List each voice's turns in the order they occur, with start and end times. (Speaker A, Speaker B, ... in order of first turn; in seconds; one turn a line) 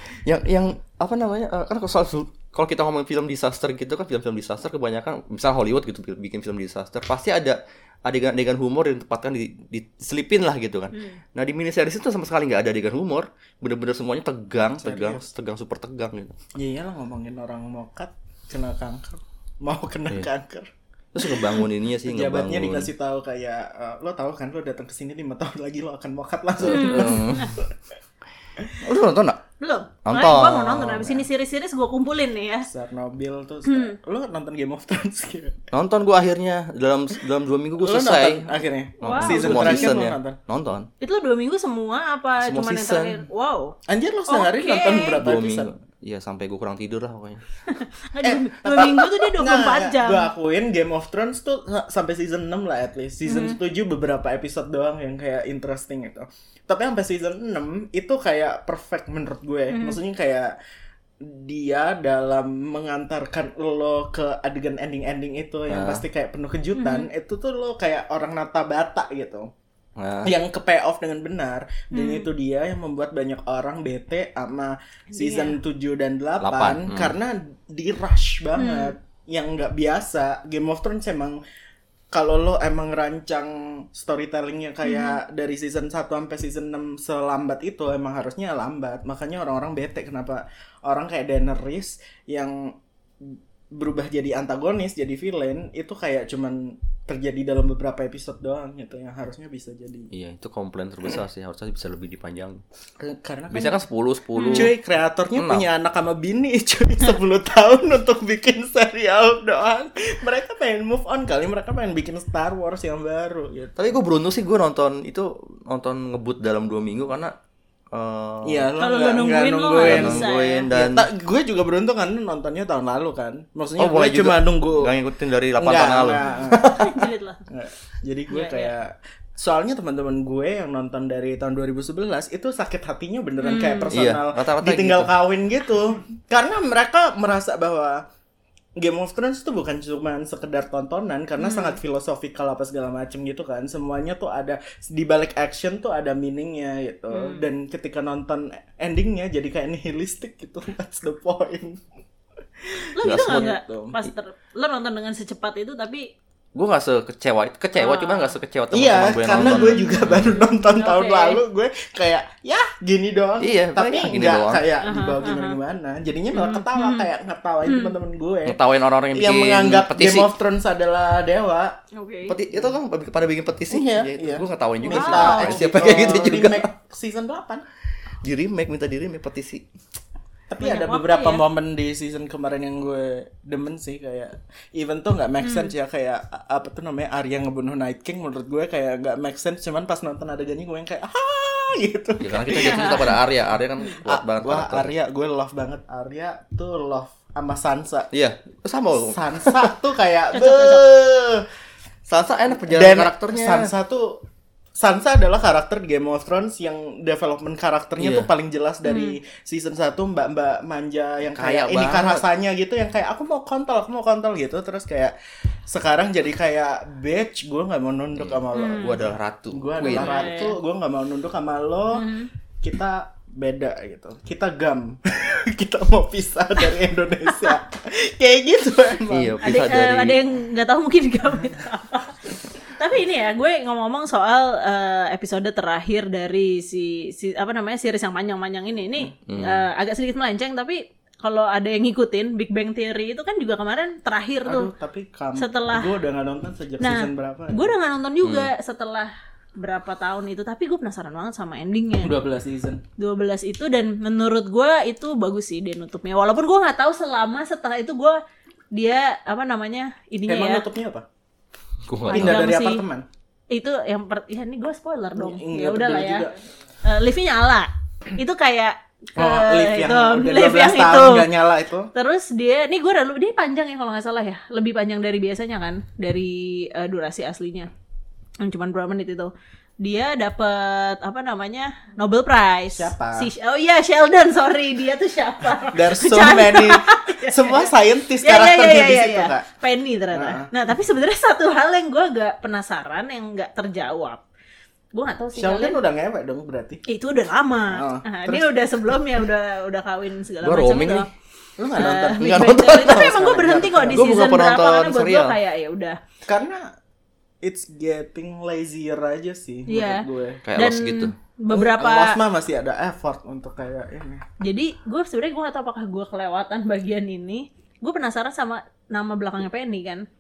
Speaker A: 0.2-16.4
Speaker B: 10.9-11.2
Speaker C: 14.8-15.2
Speaker C: 16.5-27.7
Speaker A: 21.1-22.9
Speaker A: 26.6-27.6
Speaker B: 26.7-27.5
Speaker A: 28.8-29.4
Speaker B: 29.6-32.7
Speaker A: 30.0-31.2
Speaker C: 32.7-35.6
Speaker B: 33.6-34.0
Speaker A: 35.7-40.9
Speaker C: 37.8-40.4
Speaker B: 39.0-40.0
Speaker B: 41.0-43.7
Speaker A: 42.4-43.2
Speaker C: 43.9-45.7
Speaker B: 44.3-45.2
Speaker A: 45.2-47.4
Speaker B: 47.7-50.3
Speaker C: 48.2-60.5
Speaker B: 53.2-53.6
Speaker B: 59.7-60.0
Speaker C: 61.2-69.5
Speaker A: 65.7-66.0
Speaker B: 66.7-67.1
Speaker A: 70.0-70.3
Speaker C: 70.2-81.4
Speaker B: 71.9-72.3
Speaker B: 75.1-75.6
Speaker A: 76.4-77.1
Speaker B: 78.6-78.9
Speaker C: 82.1-100.1
Speaker B: 84.8-85.2
Speaker A: 100.1-102.6
Speaker C: 103.0-103.8
Speaker A: 103.5-104.7
Speaker B: 104.3-104.7
Speaker C: 104.5-114.0
Speaker A: 105.3-105.7
Speaker A: 113.8-117.3
Speaker A: 117.9-118.7
Speaker C: 118.4-124.9
Speaker B: 118.8-120.7
Speaker A: 119.8-121.1
Speaker A: 123.8-127.0
Speaker C: 125.5-126.8
Speaker B: 126.2-127.4
Speaker C: 127.5-138.0
Speaker B: 128.3-128.7
Speaker B: 133.4-133.9
Speaker A: 133.9-135.1
Speaker C: 138.8-151.8
Speaker B: 141.4-141.8
Speaker B: 147.1-147.4
Speaker C: 152.6-154.0
Speaker B: 153.0-156.1
Speaker A: 153.0-153.5
Speaker A: 156.5-160.3
Speaker B: 157.8-158.3
Speaker C: 158.7-168.6
Speaker B: 159.4-161.4
Speaker A: 163.4-164.6
Speaker B: 164.8-165.6
Speaker B: 166.3-167.1
Speaker B: 167.7-167.9
Speaker A: 168.4-170.3
Speaker C: 169.1-171.8
Speaker B: 171.9-172.4
Speaker A: 172.3-176.7
Speaker C: 173.7-177.7
Speaker B: 174.8-175.6
Speaker A: 178.2-179.6
Speaker C: 180.5-193.2
Speaker B: 180.6-181.4
Speaker B: 185.4-185.7
Speaker A: 192.2-194.9
Speaker B: 192.6-193.1
Speaker C: 193.9-198.1
Speaker A: 198.1-199.7
Speaker C: 198.9-201.4
Speaker B: 200.3-200.9
Speaker A: 202.1-203.7
Speaker C: 202.5-204.2
Speaker C: 204.8-215.1
Speaker A: 208.0-208.3
Speaker B: 208.8-209.2
Speaker A: 211.3-212.2
Speaker C: 215.7-229.6
Speaker A: 218.2-220.3
Speaker B: 218.5-219.0
Speaker B: 219.8-220.6
Speaker B: 221.9-222.3
Speaker A: 229.1-230.2
Speaker B: 229.4-244.7
Speaker A: 239.2-239.7
Speaker C: 244.4-247.7
Speaker B: 245.4-245.9
Speaker B: 246.8-252.1
Speaker A: 248.2-248.5
Speaker C: 252.0-252.8
Speaker B: 253.0-258.2
Speaker B: 258.7-260.6
Speaker C: 260.3-261.1
Speaker A: 261.9-262.5
Speaker B: 262.1-262.8
Speaker C: 262.1-263.1
Speaker B: 263.5-266.3
Speaker C: 265.1-266.3
Speaker B: 266.8-271.3
Speaker C: 269.1-271.9
Speaker B: 271.9-277.7
Speaker B: 278.4-294.2
Speaker C: 282.7-283.3
Speaker C: 285.6-289.5
Speaker C: 290.1-290.5
Speaker B: 294.9-295.8
Speaker C: 295.4-296.8
Speaker B: 296.9-301.1
Speaker C: 297.7-299.0
Speaker A: 300.4-301.1
Speaker C: 301.6-304.4
Speaker B: 301.7-306.0
Speaker A: 302.2-305.4
Speaker C: 306.2-306.7
Speaker C: 307.4-310.4
Speaker B: 309.7-312.2
Speaker A: 310.4-311.1
Speaker C: 311.5-314.2
Speaker B: 314.4-320.1